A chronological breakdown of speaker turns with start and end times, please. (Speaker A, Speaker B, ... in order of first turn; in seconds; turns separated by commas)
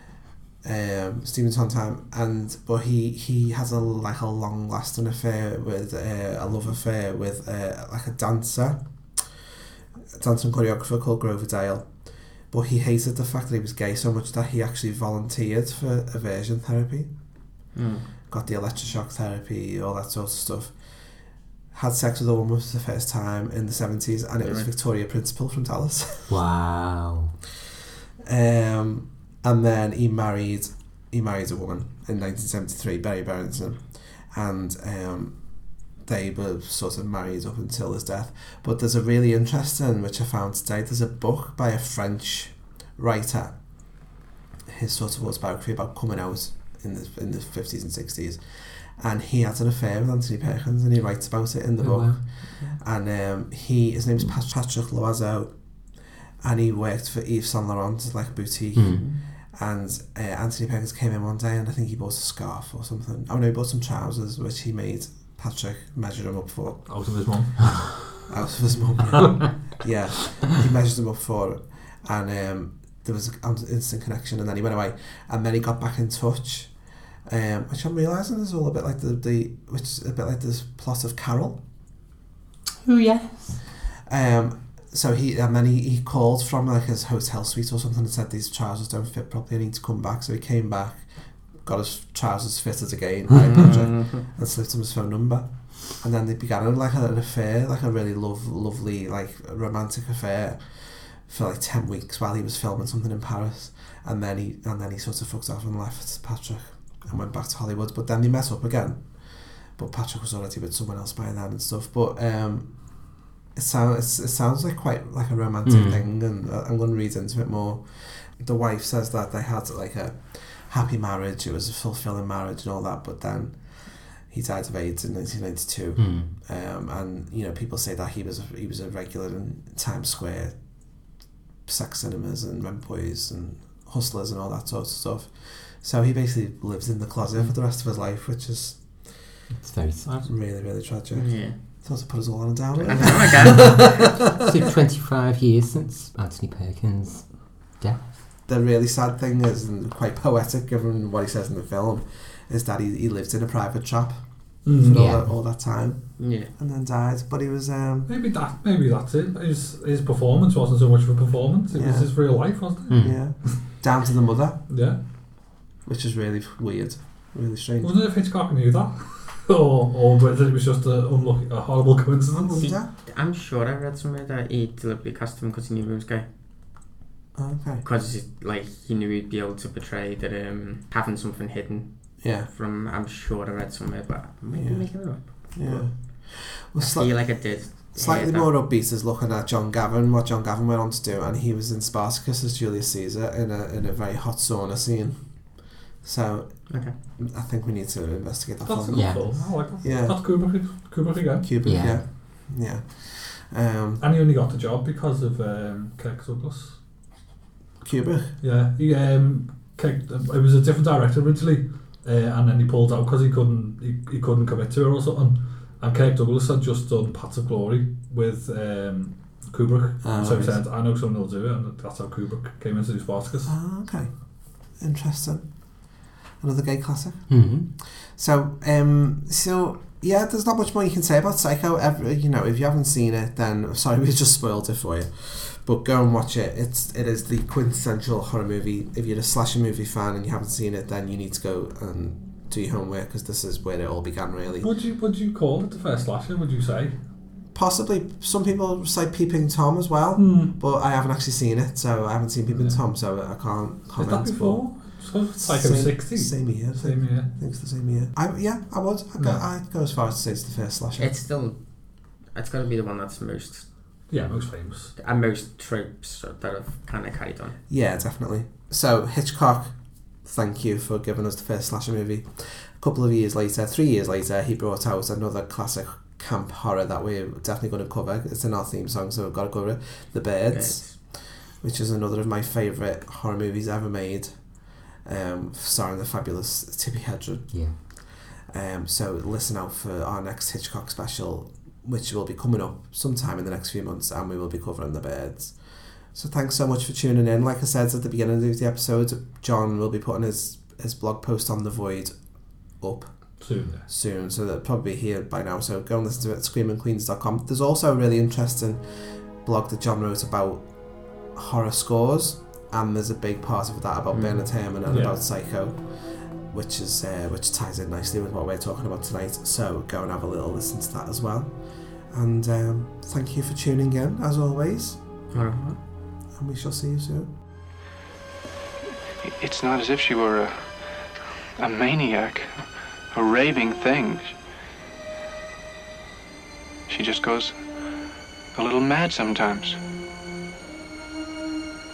Speaker A: 0.6-8.8, Speaker A: 10.1-17.1, Speaker B: 17.7-18.1, Speaker A: 18.3-20.7, Speaker A: 21.7-26.4, Speaker B: 24.4-24.7, Speaker C: 26.3-27.3, Speaker A: 28.2-35.4, Speaker A: 36.0-43.5, Speaker A: 44.6-55.5, Speaker C: 51.8-52.2, Speaker A: 56.4-67.0, Speaker C: 58.8-59.1, Speaker D: 66.8-68.1, Speaker A: 68.2-76.7, Speaker A: 77.2-81.6, Speaker C: 82.8-83.6, Speaker A: 84.0-130.5, Speaker B: 93.4-94.3, Speaker C: 115.6-116.0, Speaker C: 126.0-126.3, Speaker A: 131.7-139.1, Speaker C: 139.5-140.2, Speaker B: 140.1-140.3, Speaker A: 140.2-144.1, Speaker B: 141.1-141.6, Speaker B: 142.8-144.1, Speaker C: 142.9-148.1, Speaker A: 148.4-158.1, Speaker D: 154.6-155.0, Speaker C: 154.9-155.3, Speaker B: 156.2-156.5, Speaker D: 158.1-163.6, Speaker A: 161.7-162.1, Speaker C: 162.9-163.2, Speaker A: 163.0-164.6, Speaker D: 164.7-165.0, Speaker A: 165.8-167.9, Speaker D: 167.8-172.8, Speaker A: 172.3-172.9, Speaker B: 172.9-176.2, Speaker A: 177.3-177.8, Speaker B: 177.8-185.9, Speaker A: 182.2-182.5, Speaker A: 184.5-200.4, Speaker B: 186.8-188.5, Speaker B: 196.7-196.9, Speaker D: 198.6-201.5, Speaker C: 198.9-199.2, Speaker A: 201.4-204.0, Speaker C: 201.6-202.0, Speaker D: 204.0-206.8, Speaker A: 207.8-208.4, Speaker D: 208.4-223.5, Speaker A: 220.0-220.6, Speaker A: 223.4-224.1, Speaker A: 224.8-225.5, Speaker A: 226.4-244.7, Speaker C: 227.3-227.7, Speaker D: 244.6-246.9, Speaker A: 247.5-254.7, Speaker D: 250.2-250.5, Speaker D: 252.5-252.8, Speaker D: 253.9-257.3, Speaker A: 255.3-261.1, Speaker B: 261.0-261.6, Speaker B: 262.2-263.7, Speaker D: 264.1-264.9, Speaker B: 265.0-267.6, Speaker A: 267.7-302.1, Speaker B: 280.5-281.0, Speaker C: 287.5-287.8, Speaker A: 302.8-325.8, Speaker D: 303.4-303.8, Speaker B: 314.1-314.5, Speaker D: 314.9-315.2, Speaker B: 325.3-325.8, Speaker A: 326.3-327.3, Speaker E: 329.2-334.4, Speaker E: 336.9-337.7, Speaker E: 338.5-339.8